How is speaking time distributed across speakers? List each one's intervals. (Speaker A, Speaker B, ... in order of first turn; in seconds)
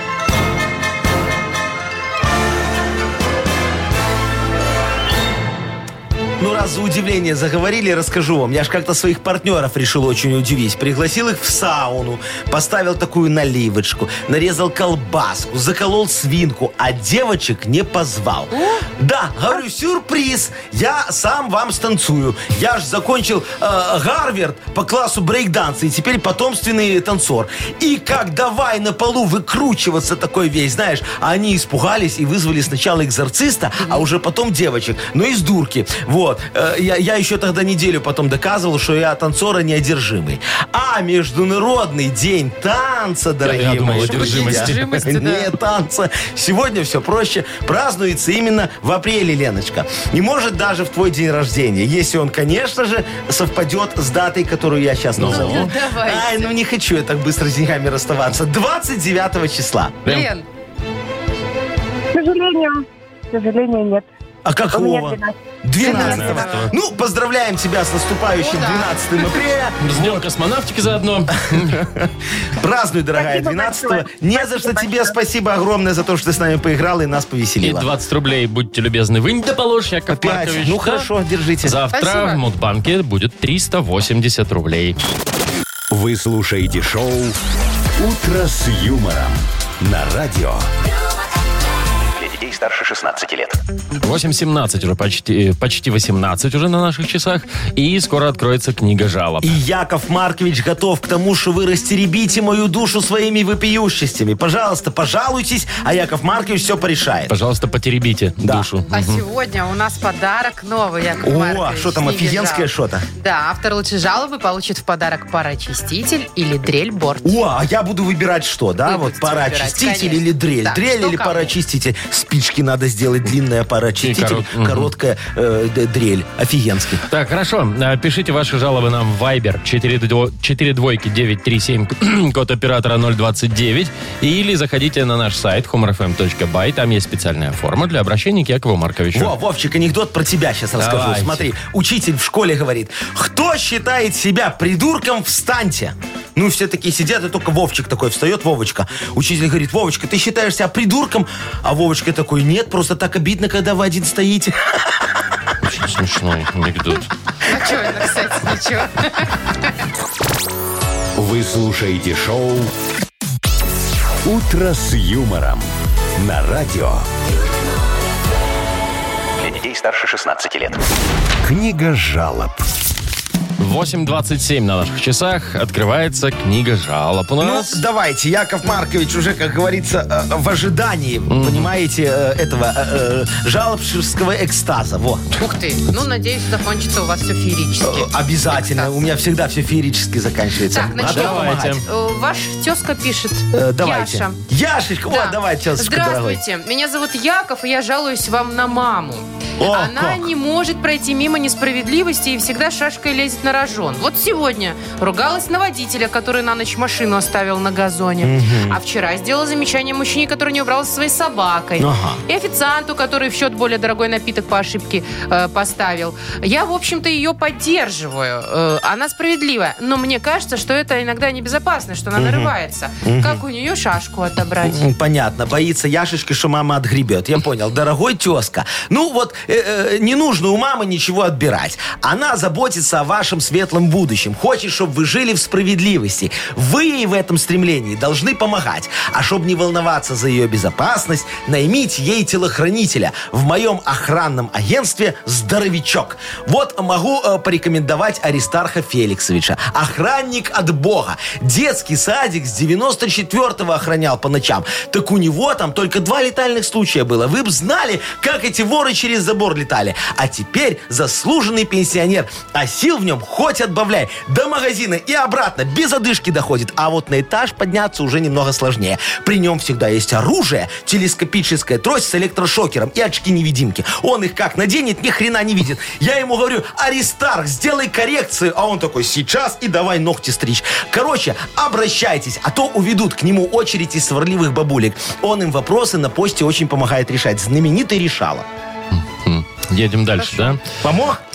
Speaker A: 6.4-60.0, 64.4-70.3, 71.5-77.9, 80.1-81.8, 99.4-107.3, 108.4-108.7, 111.2-113.0, 117.2-127.0, 139.1-154.9, 177.4-185.2, 187.8-191.8, 193.5-196.4, 199.6-200.3, 208.2-208.8, 211.8-212.2, 222.2-223.4, 224.6-288.5, 290.8-291.2
Speaker B: 18.5-18.9, 33.8-34.0, 43.9-45.5, 55.3-56.5, 60.0-60.5, 65.8-66.7, 68.3-69.3, 81.9-82.4, 108.9-117.4, 118.8-121.5, 157.5-159.3, 185.4-189.0, 190.7-194.4, 195.1-224.8, 290.2-290.6
Speaker C: 43.4-44.9, 55.2-55.7, 60.0-60.3, 66.0-66.7, 69.8-71.8, 77.6-81.1, 81.6-85.0, 94.0-99.6, 107.3-109.2, 124.0-124.9, 127.1-139.3, 140.8-141.5, 155.6-157.1, 173.6-177.8, 181.3-181.7, 191.0-191.8, 288.9-290.6
Speaker D: 62.1-64.0, 64.7-65.3, 65.9-66.3, 73.2-75.1
Speaker E: 85.9-87.4, 88.0-90.7, 161.2-162.7, 164.2-167.0, 171.4-172.7
Speaker F: 92.2-93.6, 169.4-170.8